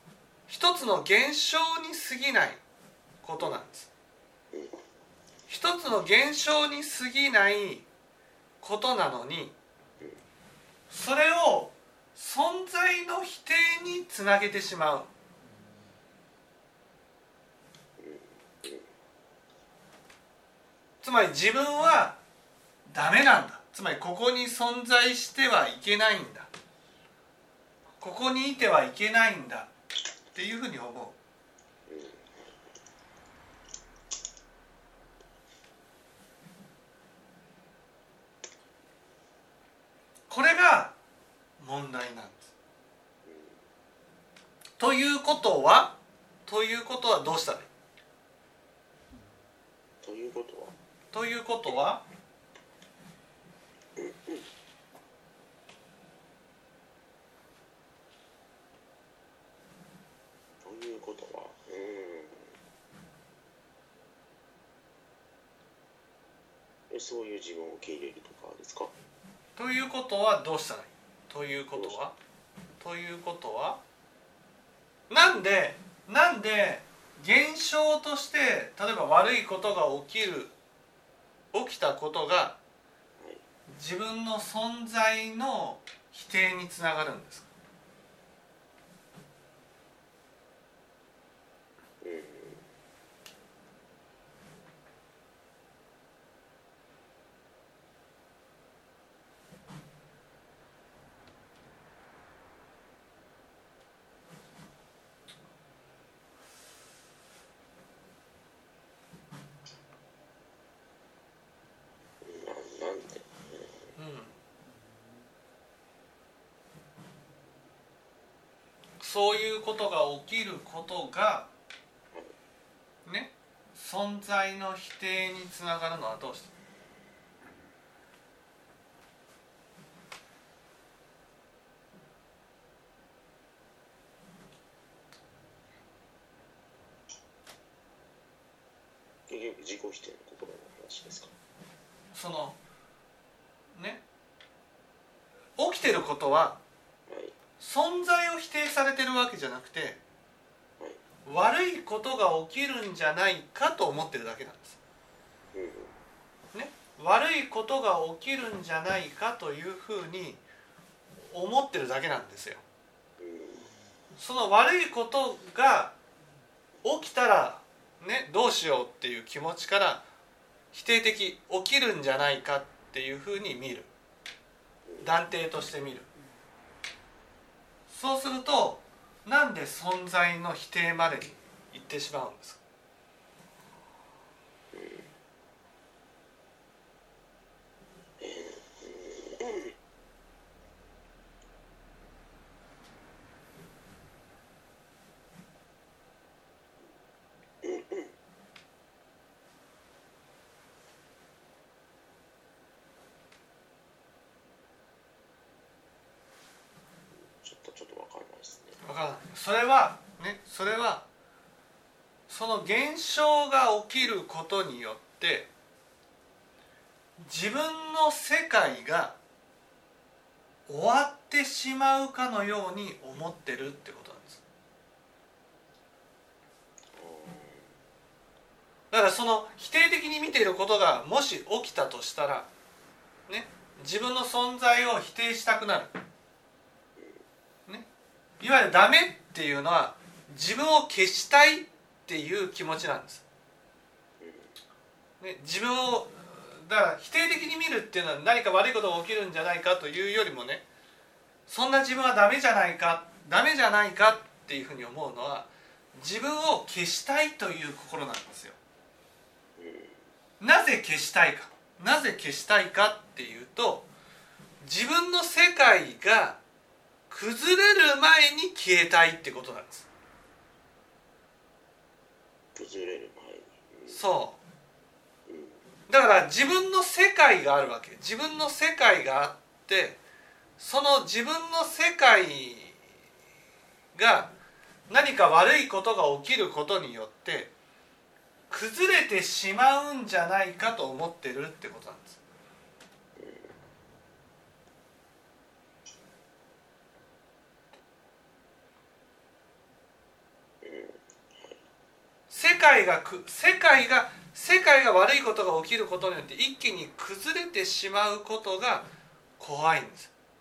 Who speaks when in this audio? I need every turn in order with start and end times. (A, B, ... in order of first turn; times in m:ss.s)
0:00.5-0:02.6 A
0:03.2-0:03.9 A
0:04.5-0:04.8 B
0:05.5-0:07.9 A
0:08.6-0:09.6 A
0:10.9-0:15.1 A
0:18.0-0:18.9 B
0:21.0-0:22.2 A
0:22.9-0:26.5 A
0:28.0-0:29.7 A
0:30.3-0:31.2 A
0:31.9-0:32.6 B
0:40.3-0:41.0 A
0:41.6-0:42.5 A
0:43.2-0:43.6 B
0:44.8-0:47.7 A
0:50.0-0:50.8 B
0:51.1-0:52.0 A
0:54.0-0:54.4 B
1:00.6-1:02.6 B
1:06.9-1:08.9 B
1:09.6-1:12.2 A
1:12.8-1:13.8 A
1:15.1-1:20.5 A
1:21.5-1:22.6 A
1:23.2-1:23.4 B
1:23.7-1:27.5 A
1:32.0-1:32.7 B
1:52.2-1:53.9 B
1:54.0-1:54.4 A
1:59.0-2:01.5 A
2:03.1-2:06.5 A
2:19.3-2:21.3 B
2:22.1-2:22.6 A
2:23.8-2:24.0 A
2:25.6-2:26.6 A
2:27.1-2:27.4 B
2:27.6-2:30.0 A
2:31.3-2:34.8 A
2:35.5-2:35.9 B
2:36.5-2:40.4 A
2:41.3-2:42.6 A
2:43.2-2:43.7 B
2:44.2-2:46.0 A
2:46.8-2:50.0 A
2:50.7-2:53.9 A
2:55.0-2:56.1 A
2:57.9-3:02.6 A
3:04.7-3:05.1 B
3:08.2-3:09.7 B
3:17.6-3:18.1 B
3:27.2-3:28.8 B
3:28.8-3:31.0 A
3:32.3-3:35.5 A
3:37.2-3:39.2 A
3:40.7-3:44.4 A
3:46.9-3:47.8 B
3:48.9-3:52.5 A
3:53.3-3:56.0 A
3:57.0-3:57.2 B
3:58.4-4:03.2 A
4:04.2-4:04.5 B
4:05.2-4:10.6 A
4:11.5-4:18.6 A
4:19.6-4:20.0 B
4:20.4-4:23.9 A
4:24.6-4:26.4 A
4:27.1-4:29.9 A
4:32.6-4:34.0 B
4:33.9-4:34.4 A
4:35.3-4:35.6 B
4:35.9-4:40.0 A
4:40.6-4:42.8 A
4:44.0-4:44.3 A
4:44.9-4:47.5 A
4:48.5-4:52.2 A
4:53.2-4:53.6 B
5:00.6-5:01.6 B
5:02.3-5:08.9 A
5:09.4-5:10.1 A